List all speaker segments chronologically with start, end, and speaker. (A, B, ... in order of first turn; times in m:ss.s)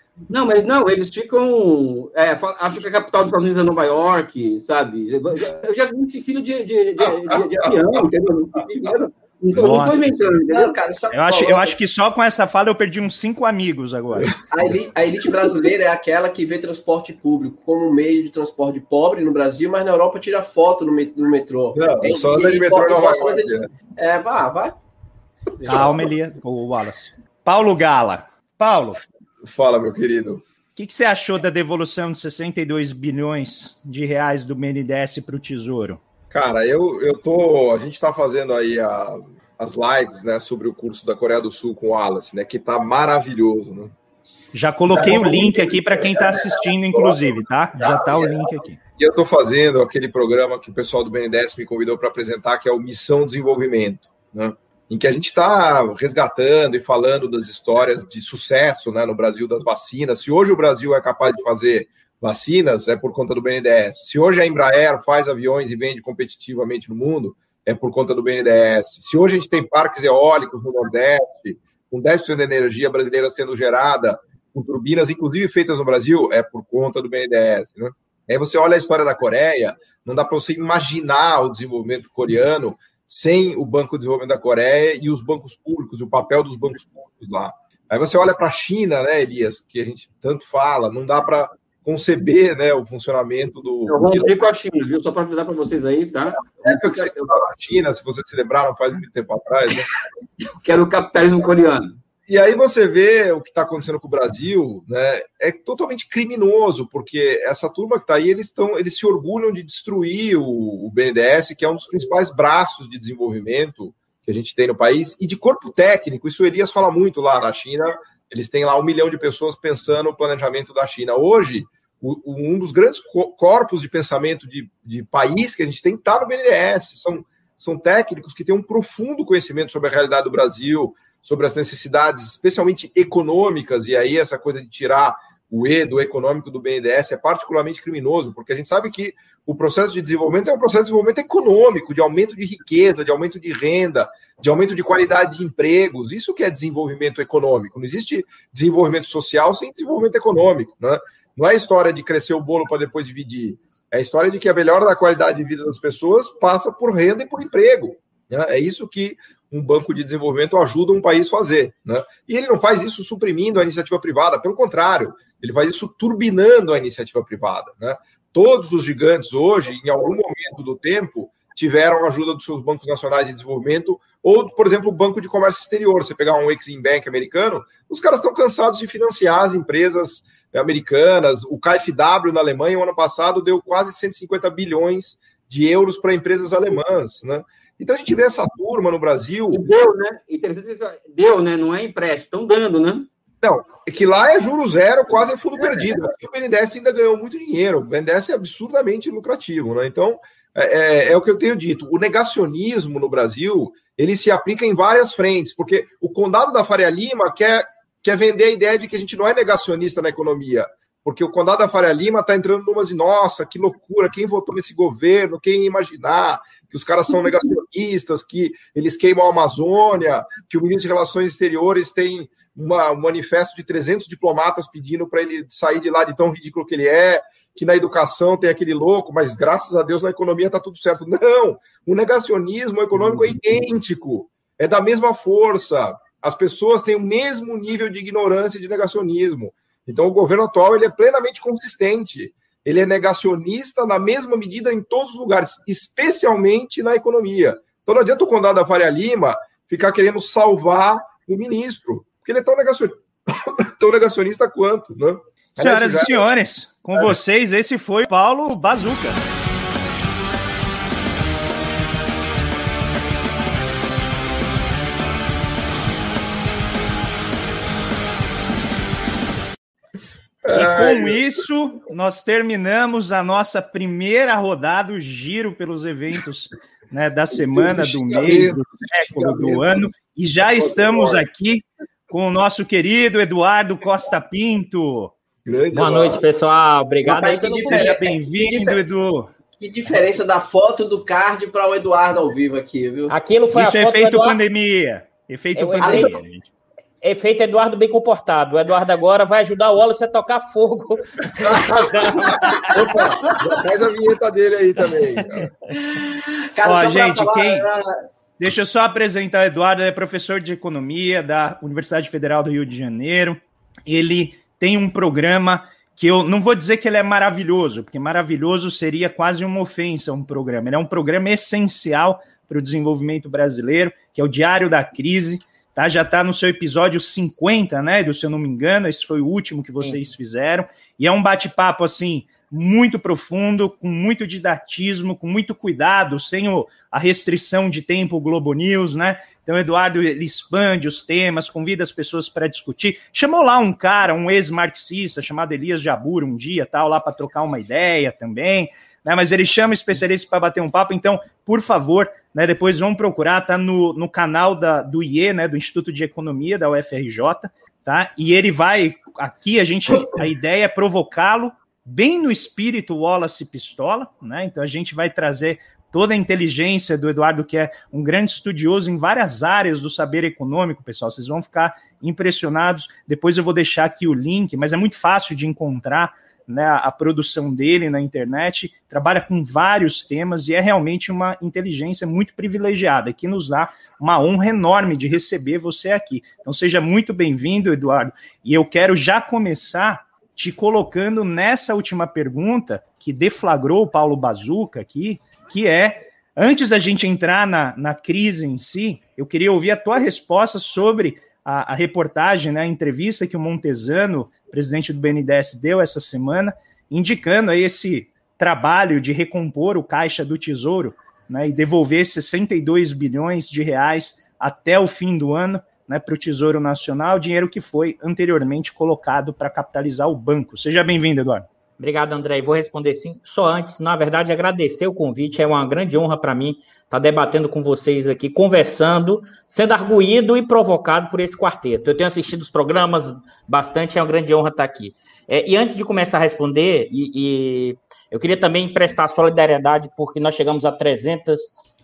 0:00.3-0:10.8 A
0:09.6-0:10.2 B
0:10.4-0:11.8 C
0:11.1-0:14.4 B
0:14.5-0:24.8 C
0:21.8-0:23.7 D
0:25.6-0:29.1 B
0:25.6-0:26.0 D
0:29.4-0:30.4 D
0:30.8-0:36.0 B
0:36.3-0:44.0 D
0:44.5-0:48.8 B
0:44.9-1:34.3 D
1:33.9-1:37.4 A
1:36.6-1:39.9 D
1:40.6-1:42.0 A
1:42.3-3:09.6 D
3:09.5-3:13.1 A
3:13.4-4:16.2 D
4:15.6-4:19.3 B
4:30.4-4:31.3 D
4:30.5-4:45.1 B
4:37.5-4:39.9 D
4:40.4-4:41.2 D
4:45.4-4:46.2 D
4:45.7-4:48.0 E
4:47.0-4:48.8 C
4:47.4-4:49.3 B
4:49.6-4:53.2 C
4:53.1-4:54.4 E
4:53.5-4:56.5 B
4:55.6-4:56.2 E
4:55.8-4:56.1 C
4:57.0-5:03.5 E
5:02.5-5:05.5 D
5:06.6-5:07.9 C
5:06.6-5:07.7 B
5:08.4-7:01.5 B
7:01.8-7:21.5 E